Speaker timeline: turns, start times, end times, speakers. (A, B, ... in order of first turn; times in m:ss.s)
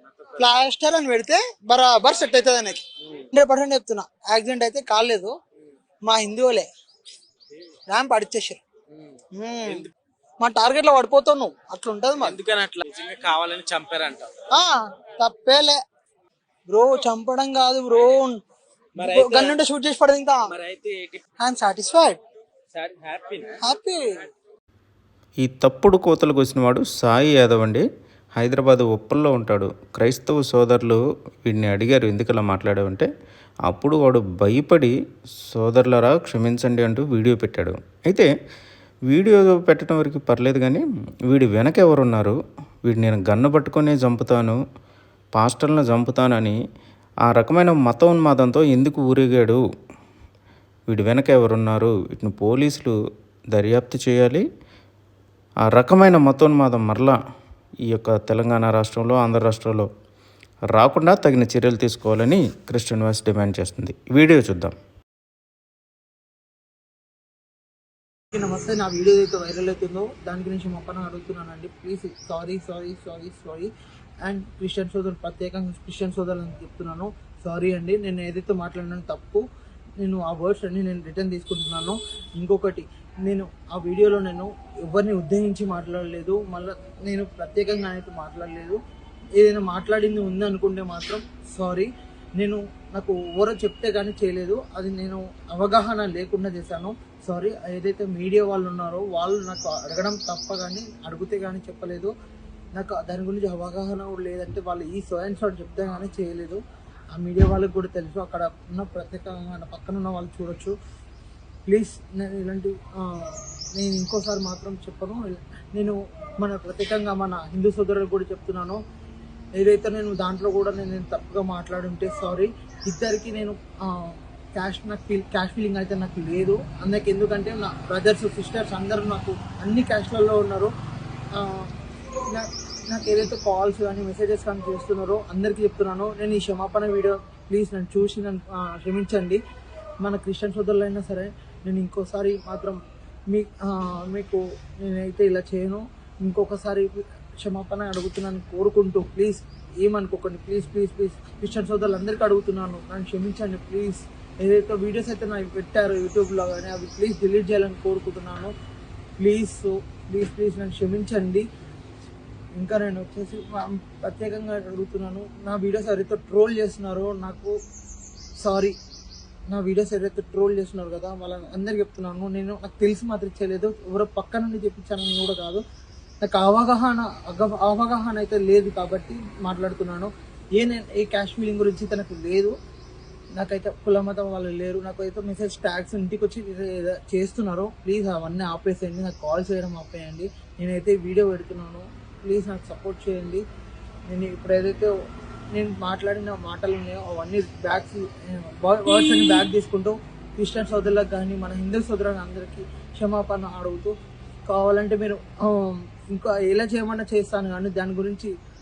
0:00.4-0:05.3 A
0:06.0-0:06.7 A
0:07.9-0:08.6 A
0:09.4-0:09.9 A
0:10.4-0:12.4 A
0:12.2-0:14.3 B
0:14.5-0:15.8 A
0:16.7-0:18.4 A
0:19.0-0:19.6 B
0:19.0-0:20.5 A
0:20.5-0:21.2 B
0:21.4-0:22.2 A
0:22.7-0:23.6 B
0:23.6-0:24.0 A
0:25.4-0:27.8 C
0:28.4-0:33.1 C
0:33.7-0:34.9 C
0:35.5-0:38.3 C
0:39.1-0:44.6 C
0:45.4-0:46.6 C
0:47.2-0:49.6 C
0:50.9-0:52.9 C
0:53.5-0:54.4 C
0:55.7-0:57.2 C
0:57.9-0:59.9 C
1:00.7-1:04.7 C
1:08.3-1:13.7 A
1:14.2-1:19.4 A
1:20.0-1:28.8 A
1:29.4-1:42.1 A
1:42.7-1:46.6 A
1:47.1-1:50.7 A
1:51.7-1:58.8 A
1:59.6-2:10.7 A
2:11.3-2:11.7 A
2:12.3-2:19.4 A
2:20.0-2:22.8 A
2:23.3-2:38.5 A
2:39.2-2:41.4 A
2:42.6-2:47.5 A
2:48.4-2:48.7 A
2:49.5-2:55.6 A
2:56.2-3:02.5 A
3:03.4-3:13.4 A
3:14.1-3:14.9 A
3:15.5-3:23.9 A
3:24.5-3:28.3 A